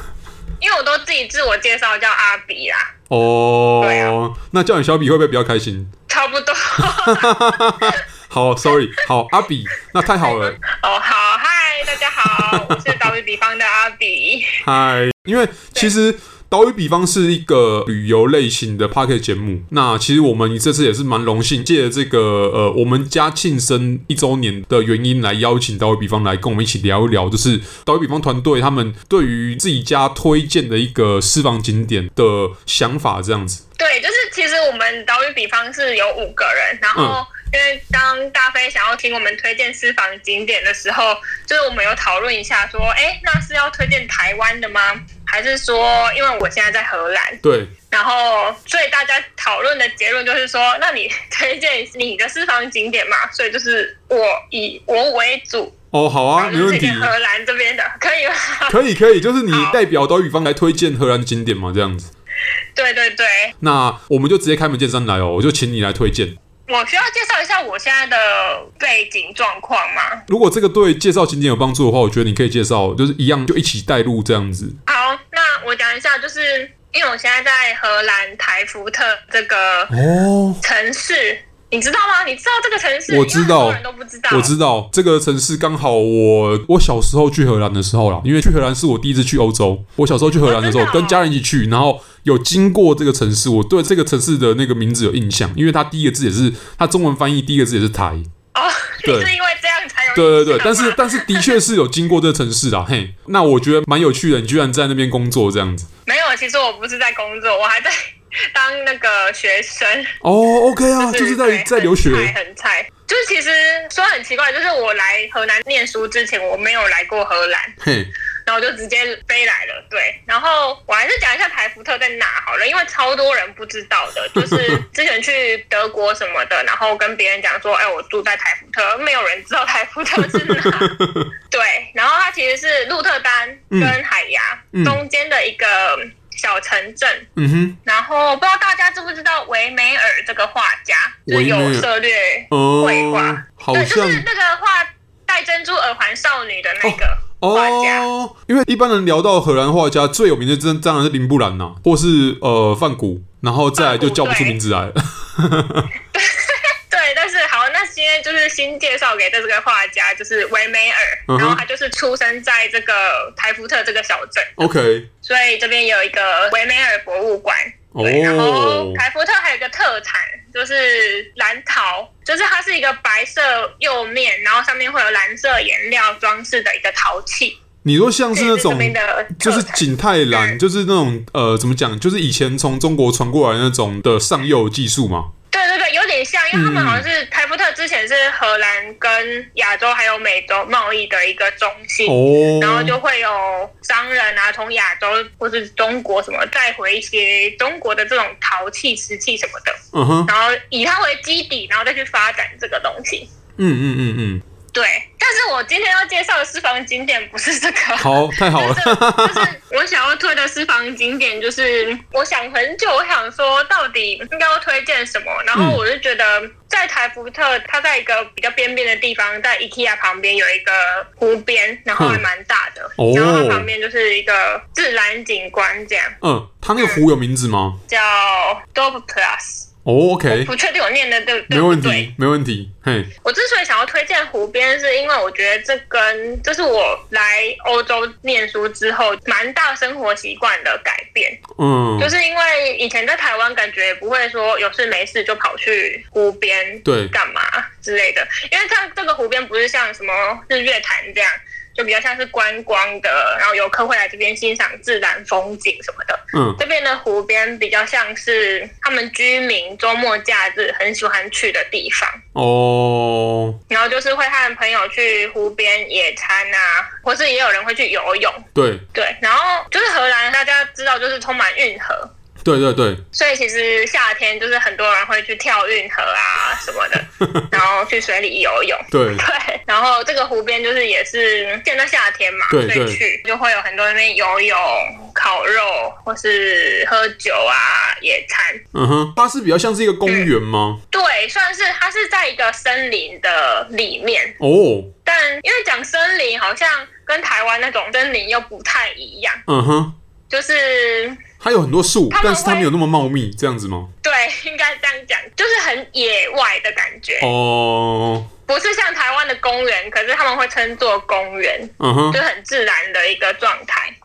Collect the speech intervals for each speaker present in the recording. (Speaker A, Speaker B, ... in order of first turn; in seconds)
Speaker A: 0.6-2.9, 3.8-4.1, 6.1-7.3, 10.2-14.6, 33.8-55.7, 56.4-58.8, 59.5-59.8, 62.7-63.5, 66.7-70.2, 74.8-79.9, 80.6-84.5, 90.4-91.2, 98.5-101.6, 106.0-107.9, 108.5-110.1, 111.0-117.7, 118.5-130.9, 131.5-137.2, 137.8-148.0, 153.8-154.6, 156.1-164.7, 165.2-177.6, 178.3-180.6, 185.5-199.8, 200.3-203.3, 204.7-226.1, 226.8-227.0, 227.9-229.7, 230.3-232.1, 233.2-241.4, 242.0-262.2, 263.7-272.1, 273.1-288.6, 290.9-294.4, 295.0-299.4, 300.3-301.2, 302.1-302.7, 304.0-307.3, 308.5-313.9
Speaker B: 3.1-5.9, 6.8-10.6, 12.2-13.0, 14.6-33.6, 36.9-37.2, 47.4-47.7, 55.9-57.1, 58.7-62.1, 63.6-66.3, 70.3-74.8, 79.9-80.6, 83.1-83.8, 84.3-98.3, 100.1-105.9, 110.2-112.3, 117.8-118.1, 124.3-124.8, 130.2-131.3, 133.7-134.0, 134.7-135.0, 137.3-137.8, 141.3-141.9, 142.5-144.2, 146.8-155.9, 161.3-161.6, 164.6-165.1, 167.9-169.0, 177.8-185.3, 186.5-187.1, 192.1-193.0, 199.9-200.3, 203.6-204.4, 208.0-209.5, 215.5-215.8, 222.0-222.2, 223.0-223.7, 226.2-227.8, 229.8-230.5, 231.5-233.1, 241.6-242.1, 246.8-247.1, 256.3-256.6, 262.3-263.6, 268.5-268.8, 272.4-273.0, 277.0-277.5, 278.9-279.2, 282.5-283.0, 288.7-290.8, 294.4-294.9, 299.5-299.9, 301.4-303.9, 307.2-308.3, 311.8-312.2